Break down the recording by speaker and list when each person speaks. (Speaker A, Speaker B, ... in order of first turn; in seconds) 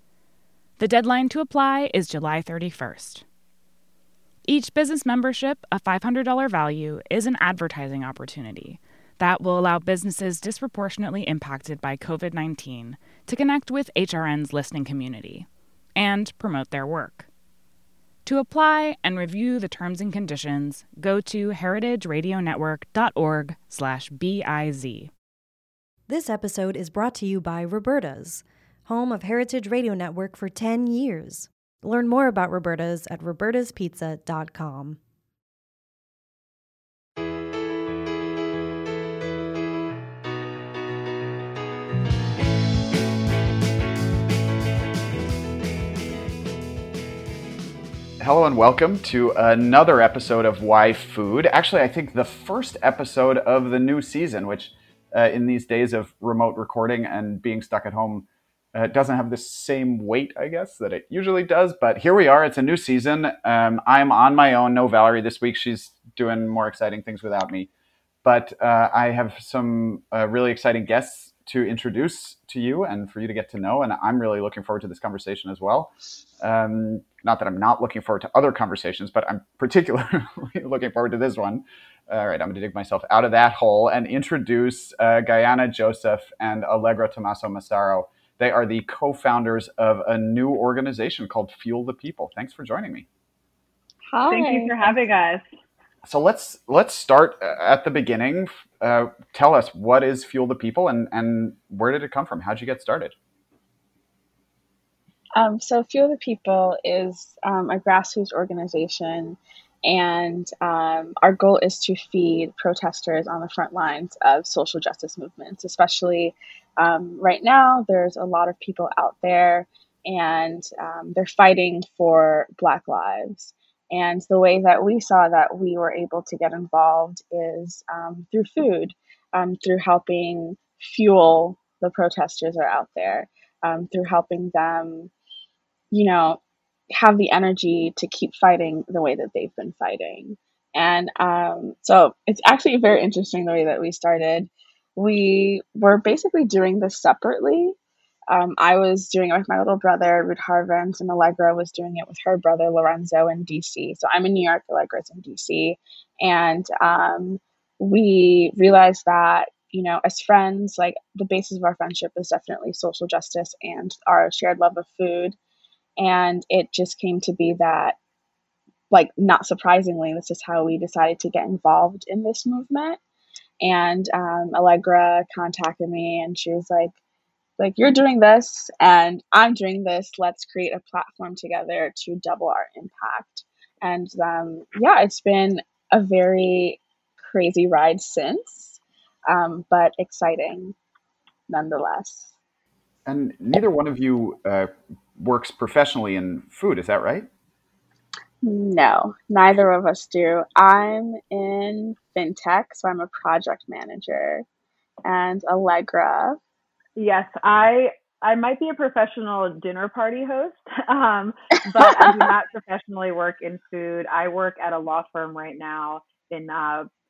Speaker A: 0.8-3.2, 4.5-17.3, 18.2-25.1
Speaker B: 26.1-35.0
Speaker C: 48.2-67.7, 68.2-93.1, 96.0-103.2, 193.1-197.3
Speaker D: 94.1-95.0, 105.4-135.1, 135.9-136.4, 136.9-147.8, 148.3-165.4, 166.0-168.0, 168.9-173.0, 173.6-176.9, 177.6-190.8, 191.5-192.3, 198.4-204.5, 205.1-206.4
Speaker E: 94.3-95.5, 207.0-216.9